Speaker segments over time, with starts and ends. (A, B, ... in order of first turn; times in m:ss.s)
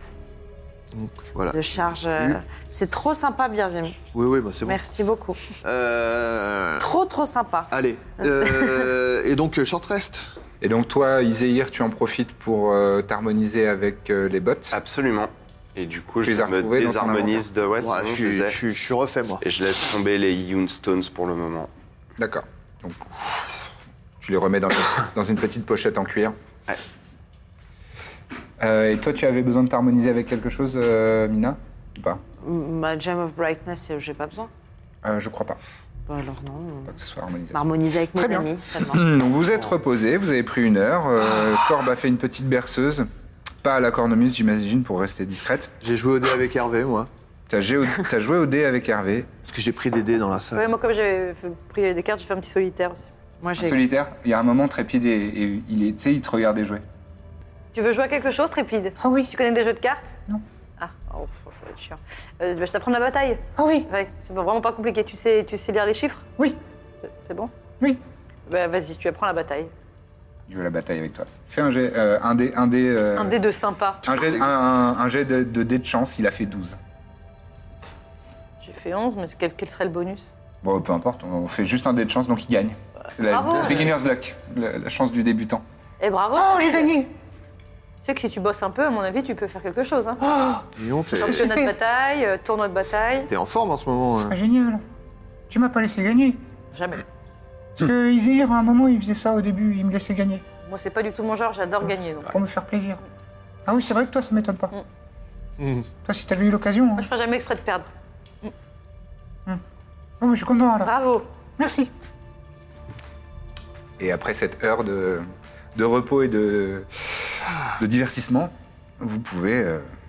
0:00.9-0:01.6 A
0:01.5-0:04.0 B
0:04.1-0:04.8 A
0:04.6-0:05.4 B
0:05.6-0:06.9 A
0:06.8-0:08.9 B
0:07.7-0:10.3 A
0:10.6-0:14.7 C
0:14.7-0:18.6 D
0:16.2-0:17.5 C
0:17.8-0:19.4 A
0:19.4-0:21.7 D
0:22.2-0:23.1 C
0:24.2-0:26.4 C
0:28.6-0:32.2 C
0:32.4-0:34.5 B
0:35.0-0:35.6 C
0:36.1-0:36.9 B
0:36.9-0:43.1 C
0:37.5-0:39.0 B
0:43.6-0:45.7 C
0:45.8-0:47.1 A
0:47.5-0:49.3 C
0:49.5-0:50.7 A
0:50.5-0:53.1 E
0:53.4-0:53.8 B
0:53.6-0:56.8 C
0:57.7-1:00.1 E
0:59.0-0:59.3 C
1:00.8-1:06.2 E
1:03.6-1:03.9 C
1:07.2-1:07.5 E
1:08.5-1:09.7 E
1:10.5-1:13.4 C
1:13.1-1:14.1 E
1:14.0-1:16.8 C
1:14.1-1:14.5 A
1:18.6-1:20.3 E
1:20.6-1:25.6 C
1:23.2-1:23.9 E
1:26.0-1:26.9 E
1:26.3-1:27.1 C
1:28.0-1:30.2 E
1:30.2-1:30.7 C
1:30.8-1:31.5 A
1:31.1-1:33.3 E
1:31.2-1:31.7 C
1:33.3-1:34.4 A
1:34.2-1:34.8 C
1:35.5-1:36.4 C
1:36.7-1:37.0 E
1:37.8-1:40.4 C
1:40.6-1:42.3 E
1:42.3-1:43.0 C
1:43.6-1:44.7 C
1:45.6-1:45.9 A
1:46.0-1:47.1 C
1:47.0-1:47.9 E
1:50.2-1:50.9 C
1:50.8-1:51.2 E
1:51.6-1:51.9 C
1:54.0-1:59.8 C